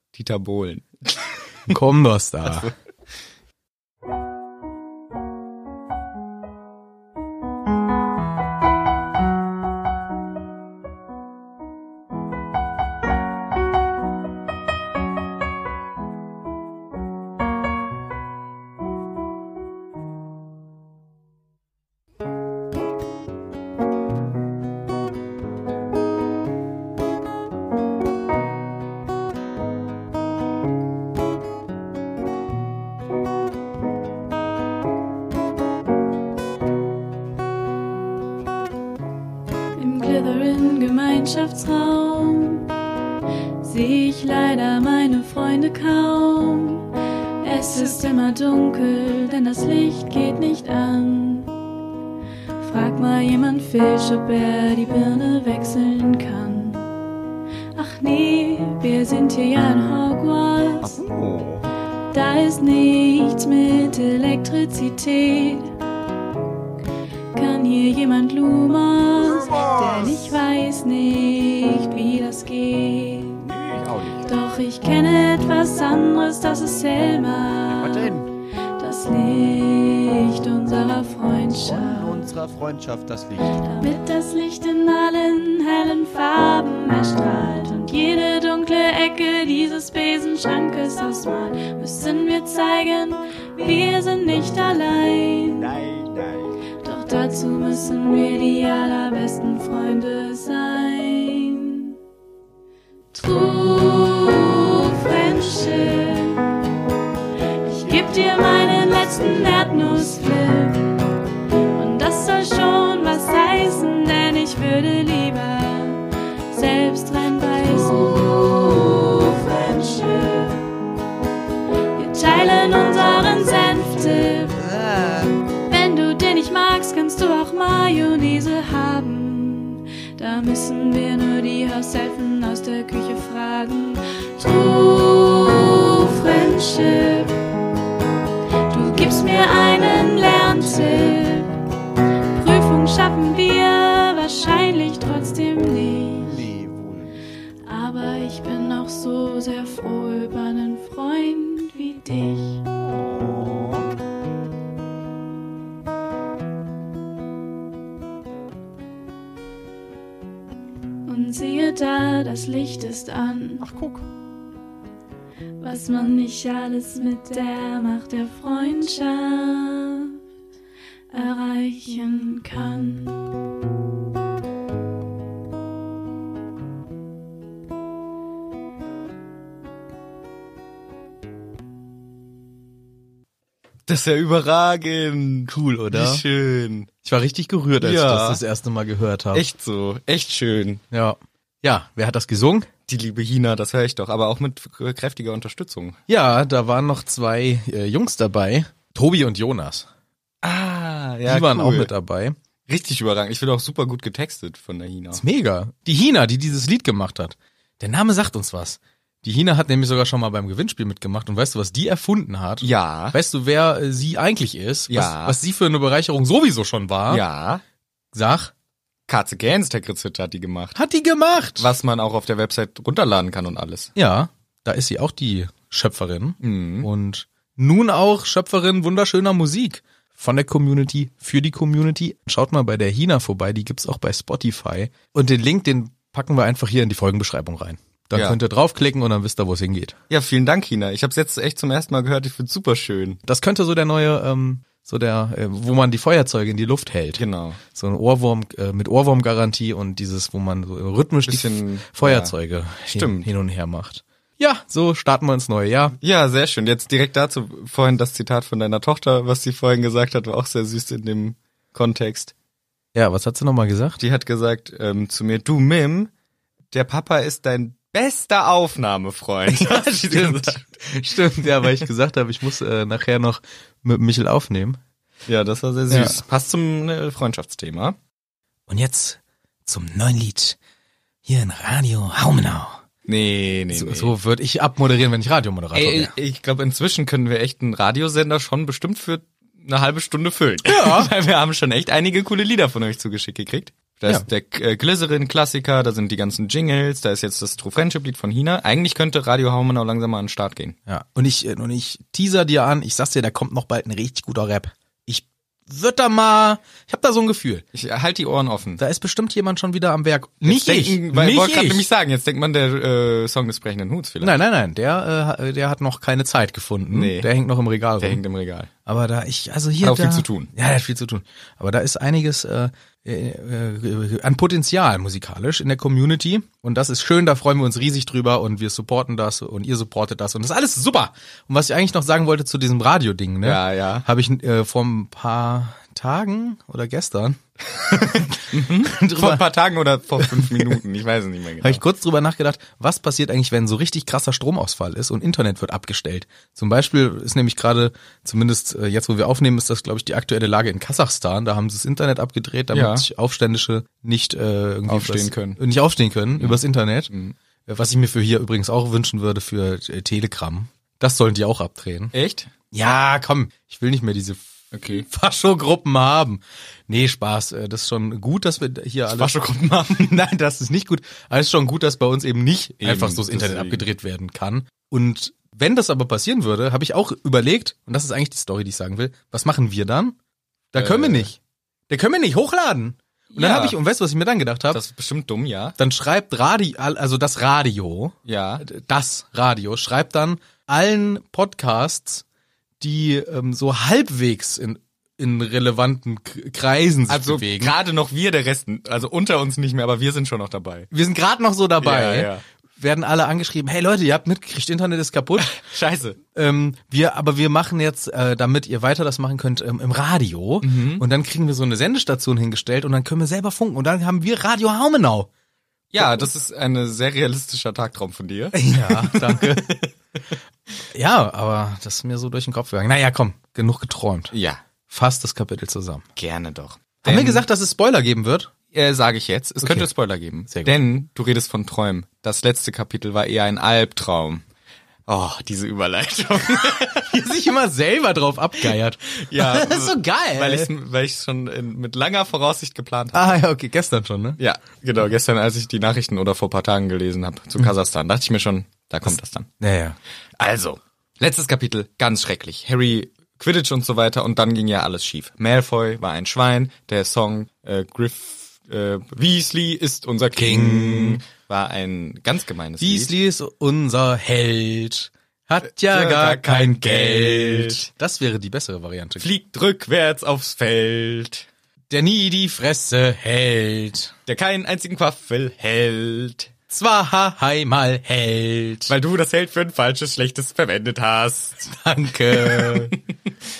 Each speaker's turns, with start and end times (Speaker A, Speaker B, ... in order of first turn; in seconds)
Speaker A: 0.1-1.7, 2.5-2.7, 183.9-186.9, 187.8-188.4, 189.3-190.8, 192.9-196.0, 200.4-201.9, 202.7-205.2, 212.6-213.2, 214.9-215.4, 217.1-217.6, 219.1-220.8, 221.6-223.9, 226.4-226.9, 240.1-243.2, 247.2-247.6, 251.3-252.3, 252.9-253.3, 256.0-262.3, 264.0-266.1, 266.7-271.8, 275.3-278.0, 283.1-284.1, 285.7-300.8, 307.7-308.8, 310.4-314.4, 316.9-317.3, 318.0-318.7, 319.8-320.5, 333.4-334.1, 338.4-341.8, 352.7-353.1, 354.9-355.6, 356.4-357.4, 362.1-362.5, 364.7-365.1, 369.1-370.2, 372.8-373.9, 380.8-381.3, 383.4-383.8, 384.7-385.8, 388.3-388.6, 397.1-400.9, 401.8-402.4, 405.4-406.2, 410.6-411.1, 415.9-419.9, 424.3-424.6, 426.2-427.4, 428.7-434.4, 435.1-437.1, 438.6-443.4, 444.4-449.5, 450.4-463.1, 465.8-467.9, 469.2-471.5, 474.3-476.5, 478.9-481.7, 482.3-483.0
Speaker B: 1.7-2.7, 185.5-186.2, 187.0-189.4, 190.9-192.7, 196.1-199.9, 201.3-202.4, 205.1-217.2, 218.1-218.5, 220.8-221.7, 224.0-240.0, 243.3-256.0, 262.9-264.0, 269.5-274.8, 275.9-276.2, 278.7-280.6, 281.2-282.8, 283.7-286.1, 290.6-291.1, 300.9-307.6, 308.8-311.9, 314.2-318.2, 318.9-339.5, 340.2-340.8, 341.6-357.1, 357.7-362.1, 362.7-364.4, 364.9-369.3, 369.9-380.1, 380.7-381.4, 381.9-384.8, 385.8-392.2, 392.8-397.8, 400.9-405.6, 406.2-415.3, 416.0-416.3, 418.5-419.8, 420.9-424.3, 424.9-426.0, 427.0-428.5, 429.6-429.9, 430.5-430.8, 437.0-440.7, 443.1-444.4, 449.6-450.0, 460.4-461.2, 462.8-469.3, 471.9-474.1, 476.7-478.9, 481.6-483.0
Speaker C: 39.8-42.7, 43.6-46.9, 47.4-51.5, 52.6-56.9, 57.8-61.0, 62.1-65.7, 67.3-73.5, 74.2-78.2, 78.8-82.3, 83.6-95.7, 96.8-102.0, 103.1-106.5, 107.6-111.0, 111.7-120.7, 122.0-124.6, 125.7-137.4, 138.7-141.6, 142.3-146.4, 147.7-152.6, 161.1-163.7, 165.6-170.2, 171.1-173.2
Speaker D: 60.8-61.6, 69.3-70.3, 73.4-74.3, 77.8-78.3, 81.5-83.7, 95.8-96.4, 124.6-125.4, 146.2-147.2, 152.9-153.8, 163.6-164.1